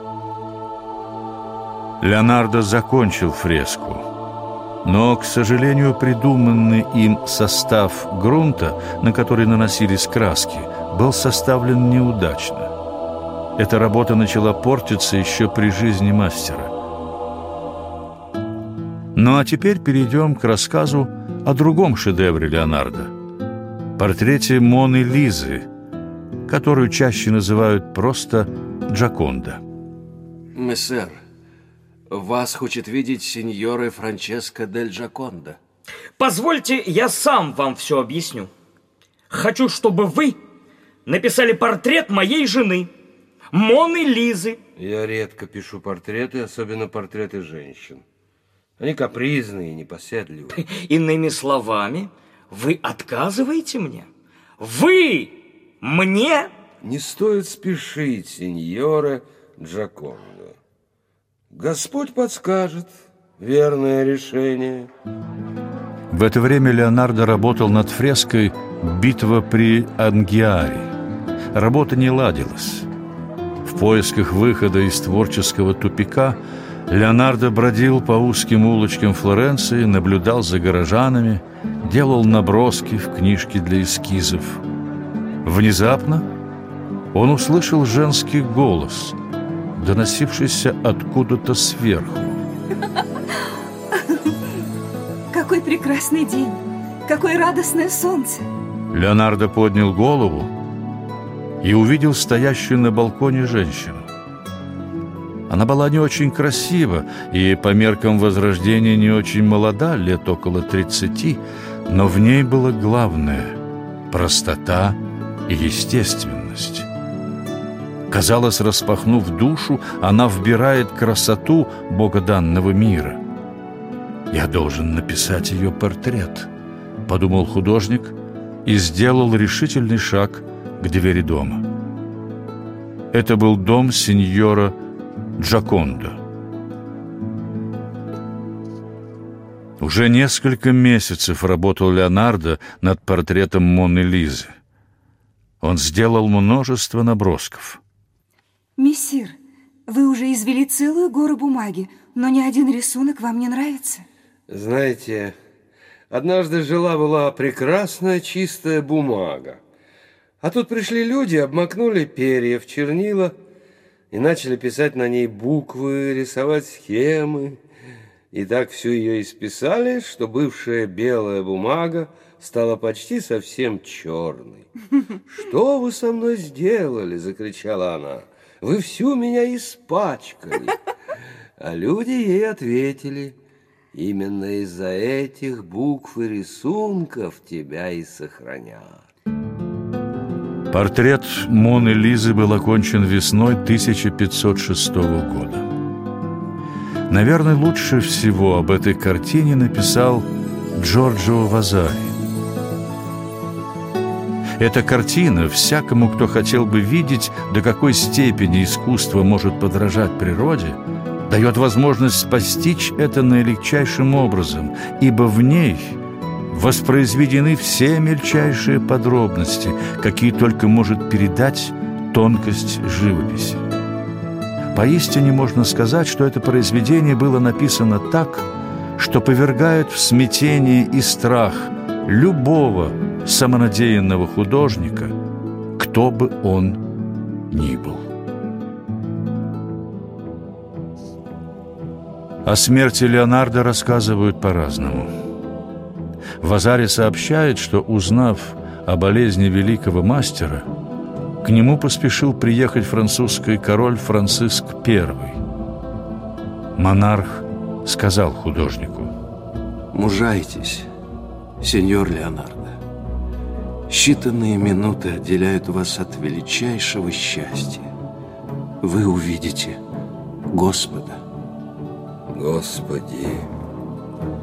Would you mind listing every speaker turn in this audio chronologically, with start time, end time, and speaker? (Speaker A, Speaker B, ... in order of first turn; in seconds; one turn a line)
Speaker A: 2.0-4.1
Speaker A: 4.8-12.7
Speaker A: 13.6-16.7
Speaker A: 19.1-23.1
Speaker A: 24.0-25.7
Speaker A: 26.5-29.6
Speaker B: 30.6-31.2
Speaker B: 32.1-35.6
Speaker C: 36.2-38.5
Speaker C: 39.3-40.4
Speaker C: 41.1-42.9
Speaker C: 43.5-44.6
Speaker D: 44.8-48.0
Speaker D: 48.8-50.5
Speaker C: 50.5-54.1
Speaker C: 54.6-56.5
Speaker D: 56.8-60.5
Speaker D: 61.5-64.9
Speaker A: 66.1-70.9
Speaker A: 71.5-72.9
Speaker A: 73.6-84.6
Speaker A: 85.4-86.3
Speaker A: 87.1-89.2
Speaker A: 89.8-92.4
Speaker E: 95.3-98.5
Speaker A: 98.9-100.5
Speaker A: 101.6-104.1
Speaker A: 105.5-116.9
Speaker A: 118.1-123.2
Speaker A: 124.3-126.5
Speaker A: 127.1-131.7
Speaker A: 133.1-134.8
Speaker A: 135.4-136.2
Speaker A: 139.8-144.5
Speaker A: 145.6-147.8
Speaker E: 148.8-149.4
Speaker E: 149.9-154.1
Speaker D: 154.5-155.3
Speaker D: 156.1-159.6
Speaker D: 160.4-163.3
Speaker D: 164.1-167.6
Speaker D: 168.3-174.7
Speaker D: 175.3-180.8
Speaker D: 181.6-183.4
Speaker D: 183.9-189.0
Speaker A: 190.7-195.7
Speaker A: 197.1-202.2
Speaker A: 204.6-223.7
Speaker A: 224.7-235.2
Speaker A: 235.8-236.8
Speaker A: 237.5-238.1
Speaker A: 242.4-245.1
Speaker A: 246.4-250.7
Speaker A: 251.4-255.4
Speaker A: 256.8-259.1
Speaker B: 259.9-260.9
Speaker B: 261.6-262.8
Speaker B: 263.9-267.9
Speaker B: 268.8-269.8
Speaker B: 270.5-271.2
Speaker D: 272.3-273.5